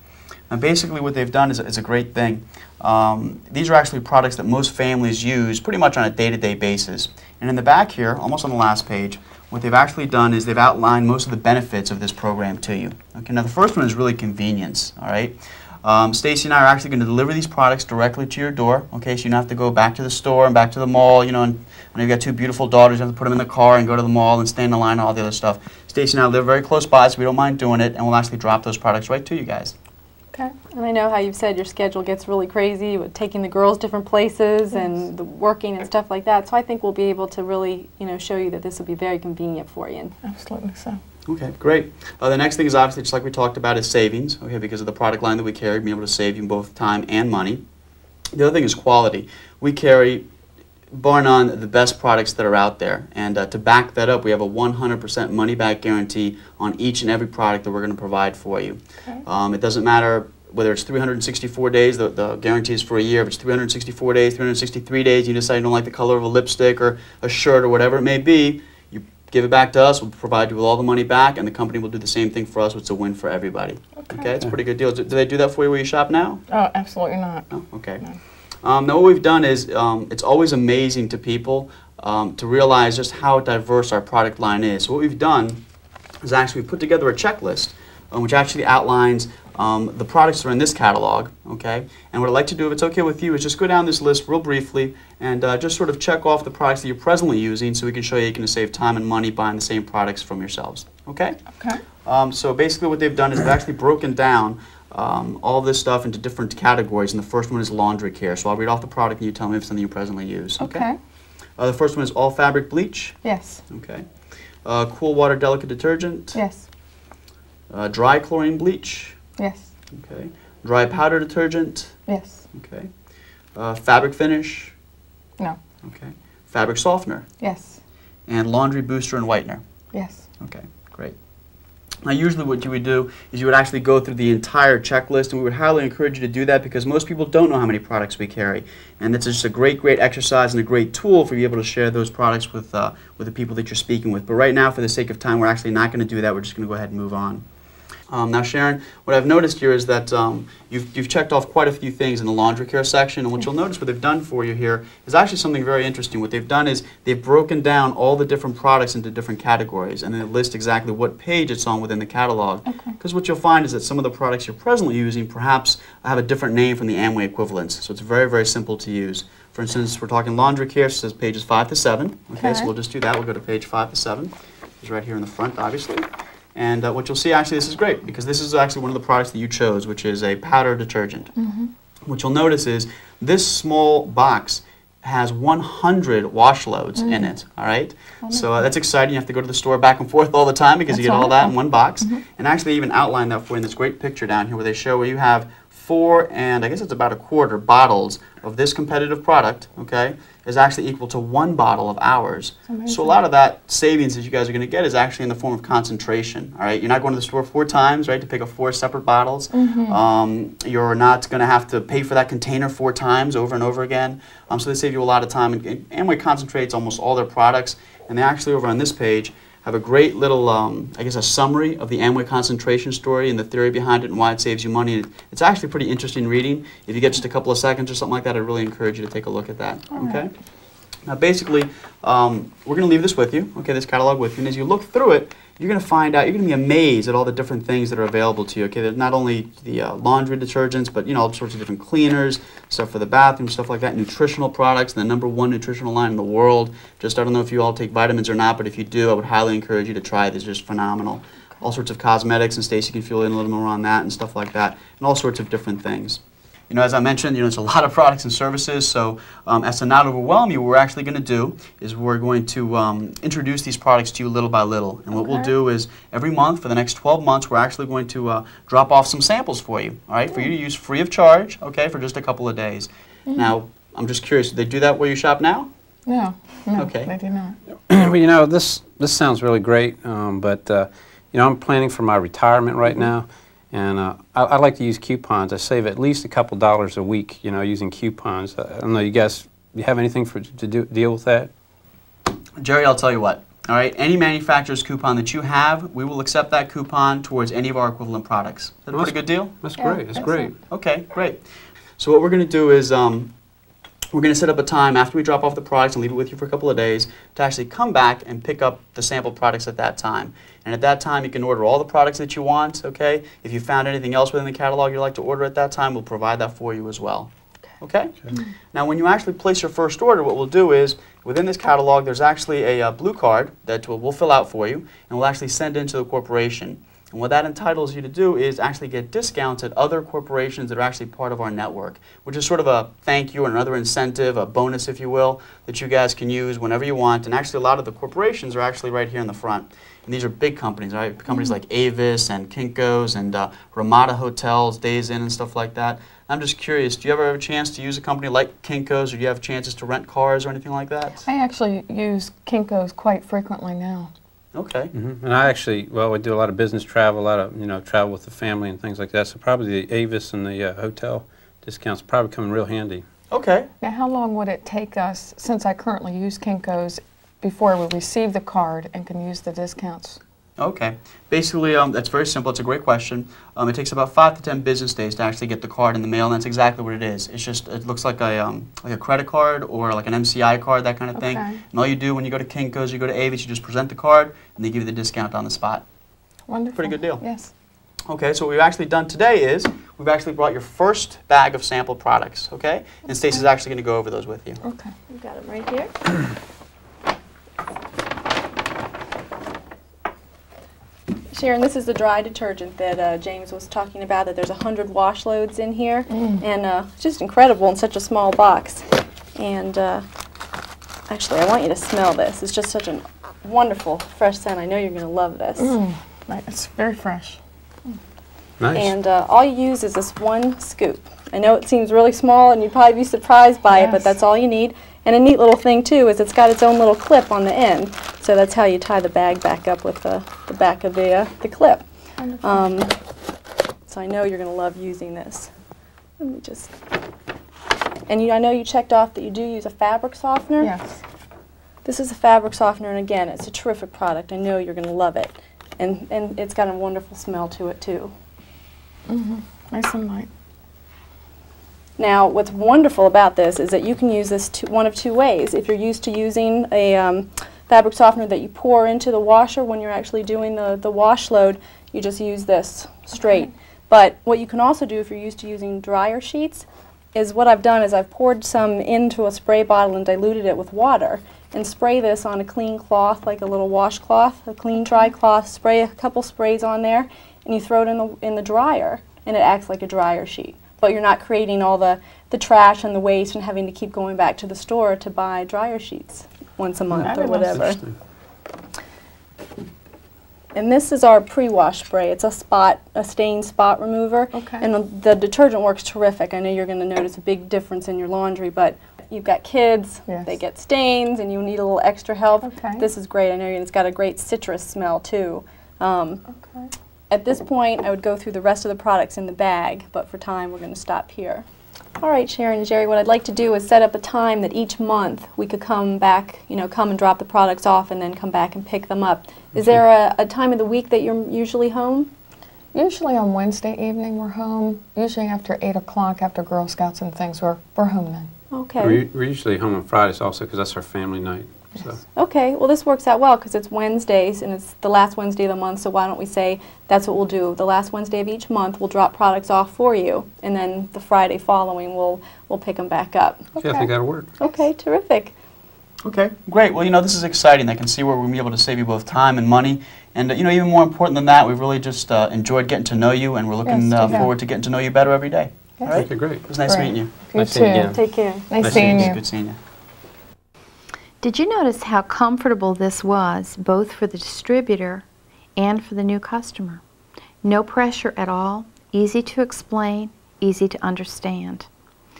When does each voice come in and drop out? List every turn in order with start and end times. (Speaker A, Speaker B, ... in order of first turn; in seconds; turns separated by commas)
Speaker A: 0.5-29.7, Speaker B: 30.7-40.1, Speaker C: 34.7-35.0, Speaker C: 40.2-41.0, Speaker A: 41.3-47.6, Speaker A: 48.3-50.3, Speaker A: 50.9-76.4, Speaker C: 74.0-74.3, Speaker C: 76.5-78.2, Speaker A: 77.5-78.0, Speaker A: 78.6-85.6, Speaker A: 86.2-110.9, Speaker C: 110.6-111.0, Speaker A: 111.6-114.1, Speaker C: 113.2-113.6, Speaker A: 114.6-116.4, Speaker C: 116.3-116.6, Speaker A: 117.7-119.2, Speaker C: 119.4-119.7, Speaker A: 119.9-122.0, Speaker C: 122.1-122.4, Speaker A: 122.5-122.9, Speaker A: 123.5-124.7, Speaker A: 125.8-127.2, Speaker C: 127.4-127.8, Speaker A: 128.3-129.6, Speaker C: 129.9-130.2, Speaker A: 130.4-131.2, Speaker A: 132.0-147.4, Speaker A: 148.1-181.3, Speaker C: 162.7-162.9, Speaker C: 172.4-172.7, Speaker C: 181.4-181.7, Speaker A: 182.1-230.3, Speaker C: 187.0-187.3, Speaker C: 188.2-188.7, Speaker C: 190.9-192.2, Speaker C: 202.7-203.2, Speaker C: 209.5-210.0, Speaker C: 229.9-230.2, Speaker A: 231.0-275.7, Speaker C: 265.1-265.5, Speaker C: 273.3-273.5, Speaker C: 276.1-277.6, Speaker A: 276.8-277.1, Speaker D: 277.9-291.5, Speaker A: 292.6-299.6, Speaker D: 298.9-300.6, Speaker C: 299.7-300.5, Speaker A: 300.1-301.4, Speaker A: 302.0-303.3, Speaker A: 304.1-351.2, Speaker C: 341.3-341.6, Speaker C: 351.2-354.1, Speaker A: 354.5-354.9, Speaker D: 354.9-363.0, Speaker A: 363.3-363.7, Speaker C: 363.8-370.2, Speaker A: 370.6-385.8, Speaker C: 381.1-381.6, Speaker C: 386.5-387.5, Speaker A: 386.7-387.2, Speaker A: 388.1-394.6, Speaker C: 394.6-394.9, Speaker B: 395.1-396.0, Speaker B: 401.3-410.1, Speaker C: 406.1-406.4, Speaker B: 411.1-415.7, Speaker C: 415.6-417.4, Speaker D: 418.6-418.9, Speaker B: 418.7-431.9, Speaker C: 423.7-424.1, Speaker C: 432.2-432.8, Speaker B: 432.4-432.9, Speaker B: 433.9-435.5, Speaker B: 436.2-436.8, Speaker B: 438.1-440.7, Speaker C: 440.6-441.0, Speaker B: 441.8-448.1, Speaker C: 449.1-450.3, Speaker B: 452.0-487.8, Speaker D: 486.9-487.9, Speaker C: 487.1-487.4, Speaker B: 490.5-506.2, Speaker C: 494.3-494.6, Speaker C: 500.1-500.3, Speaker C: 502.4-502.9, Speaker C: 506.3-506.6, Speaker B: 507.1-511.4, Speaker B: 512.0-522.1, Speaker C: 522.7-528.3, Speaker B: 528.5-529.0, Speaker D: 528.8-532.0, Speaker B: 532.1-543.6, Speaker D: 543.6-544.3, Speaker B: 544.4-545.3, Speaker A: 546.0-557.1, Speaker C: 553.6-554.3, Speaker C: 555.8-559.2, Speaker D: 555.9-556.5, Speaker D: 557.3-559.2, Speaker B: 557.9-558.8, Speaker A: 558.7-559.6, Speaker E: 561.2-565.0, Speaker E: 565.6-566.8, Speaker E: 567.4-571.7